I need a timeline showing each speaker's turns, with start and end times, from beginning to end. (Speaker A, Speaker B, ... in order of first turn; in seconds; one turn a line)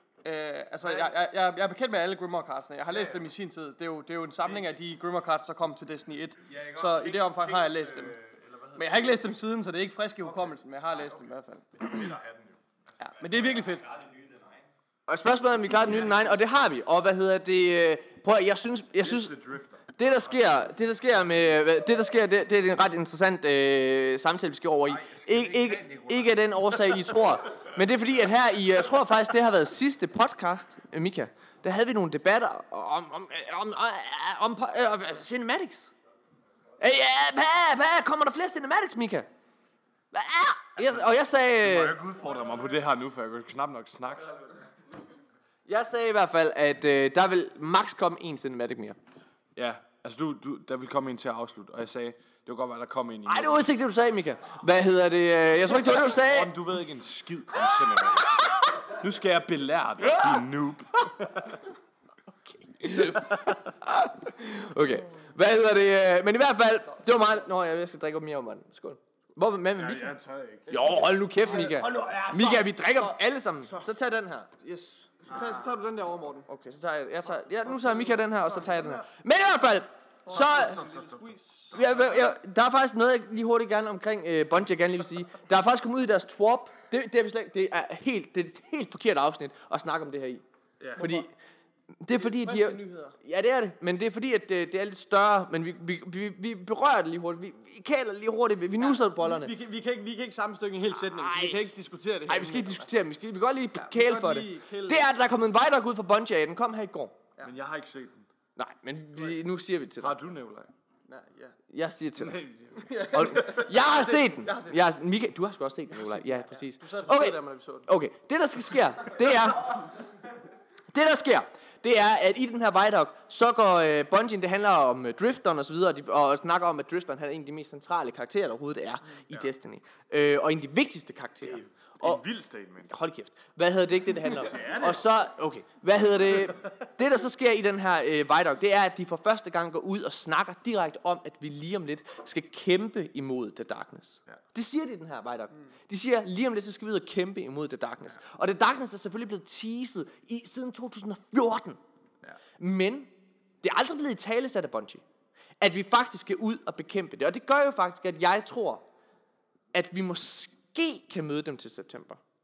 Speaker A: 0.2-8.2
Speaker B: 2.9-3.3
Speaker B: 4.4-4.8
Speaker B: 6.5-9.2
Speaker A: 8.8-11.9
Speaker B: 10.2-11.2
Speaker B: 11.8-12.6
Speaker A: 13.0-13.9
Speaker C: 15.1-19.3
Speaker B: 19.0-20.2
Speaker C: 20.0-35.9
Speaker B: 24.9-27.0
Speaker C: 36.8-39.3
Speaker C: 40.1-42.0
Speaker B: 41.6-44.3
Speaker C: 45.7-49.0
Speaker B: 49.5-53.6
Speaker C: 53.2-56.5
Speaker B: 55.8-61.6
Speaker C: 62.5-70.1
Speaker B: 69.8-70.7
Speaker C: 70.7-74.5
Speaker A: 70.7-73.2
Speaker A: 74.6-76.5
Speaker C: 76.5-80.8
Speaker A: 77.7-79.0
Speaker A: 80.3-81.7
Speaker B: 80.5-81.3
Speaker C: 81.7-90.4
Speaker A: 91.0-91.3
Speaker C: 91.0-91.3
Speaker C: 92.0-99.5
Speaker A: 92.2-93.2
Speaker A: 98.8-102.9
Speaker C: 101.0-101.7
Speaker C: 102.3-107.2
Speaker A: 103.8-105.0
Speaker B: 107.4-108.3
Speaker C: 108.6-110.1
Speaker B: 110.0-110.7
Speaker A: 111.1-111.5
Speaker C: 111.7-112.3
Speaker B: 112.2-113.6
Speaker A: 112.8-114.8
Speaker C: 113.1-119.7
Speaker A: 116.8-117.9
Speaker C: 120.9-132.2
Speaker B: 131.4-132.9
Speaker C: 132.9-151.8
Speaker B: 134.4-135.0
Speaker C: 152.6-153.1
Speaker C: 153.6-155.0
Speaker C: 155.6-158.8
Speaker C: 159.7-162.2